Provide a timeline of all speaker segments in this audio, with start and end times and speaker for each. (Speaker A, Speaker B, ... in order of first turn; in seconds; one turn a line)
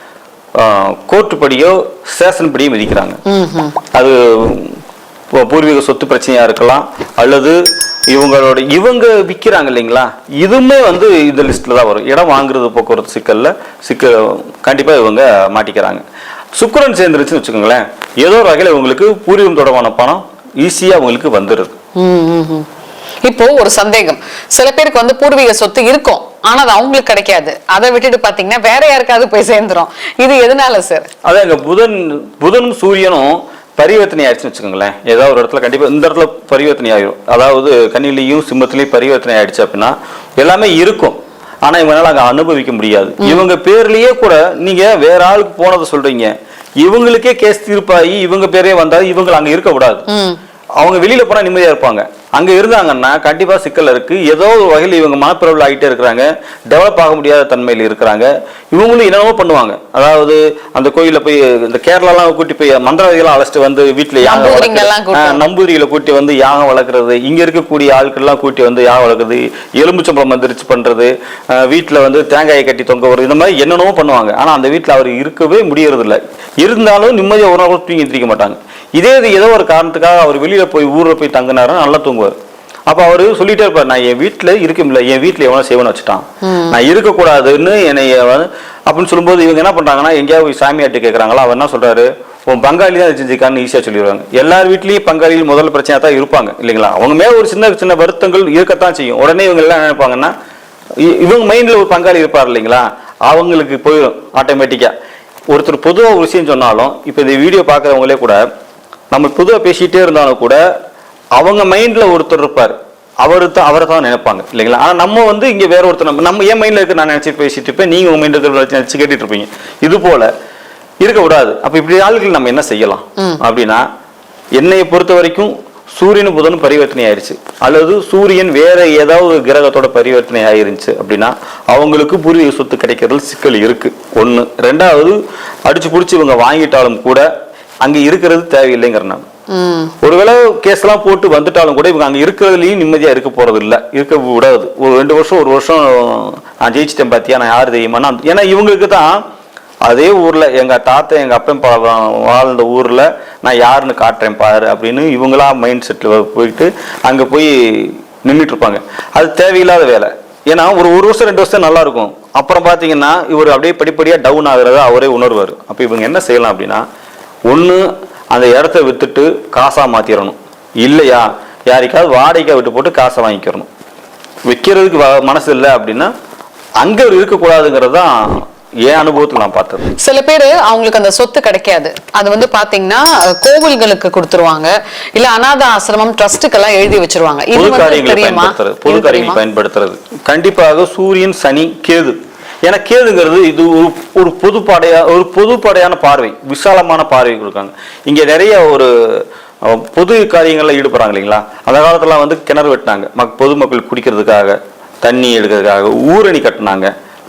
Speaker A: 0.6-3.2
Speaker B: 3.2-3.8
Speaker A: 3.9-4.8
Speaker A: 5.3-16.0
Speaker A: 16.6-21.8
Speaker B: 22.0-22.7
Speaker B: 23.2-31.1
Speaker A: 31.2-50.1
Speaker B: 50.1-50.4
Speaker A: 50.8-82.3
Speaker B: 64.2-65.4
Speaker A: 82.9-100.3
Speaker B: 86.4-86.8
Speaker A: 101.0-104.9
Speaker A: 105.5-108.4
Speaker A: 109.1-110.6
Speaker A: 111.4-120.3
Speaker A: 121.0-123.8
Speaker A: 124.6-137.3
Speaker A: 137.8-139.2
Speaker B: 139.5-139.9
Speaker A: 140.0-149.2
Speaker A: 149.8-166.8
Speaker A: 167.5-173.7
Speaker A: 174.5-176.1
Speaker A: 176.8-179.9
Speaker B: 180.0-189.4
Speaker A: 187.6-206.9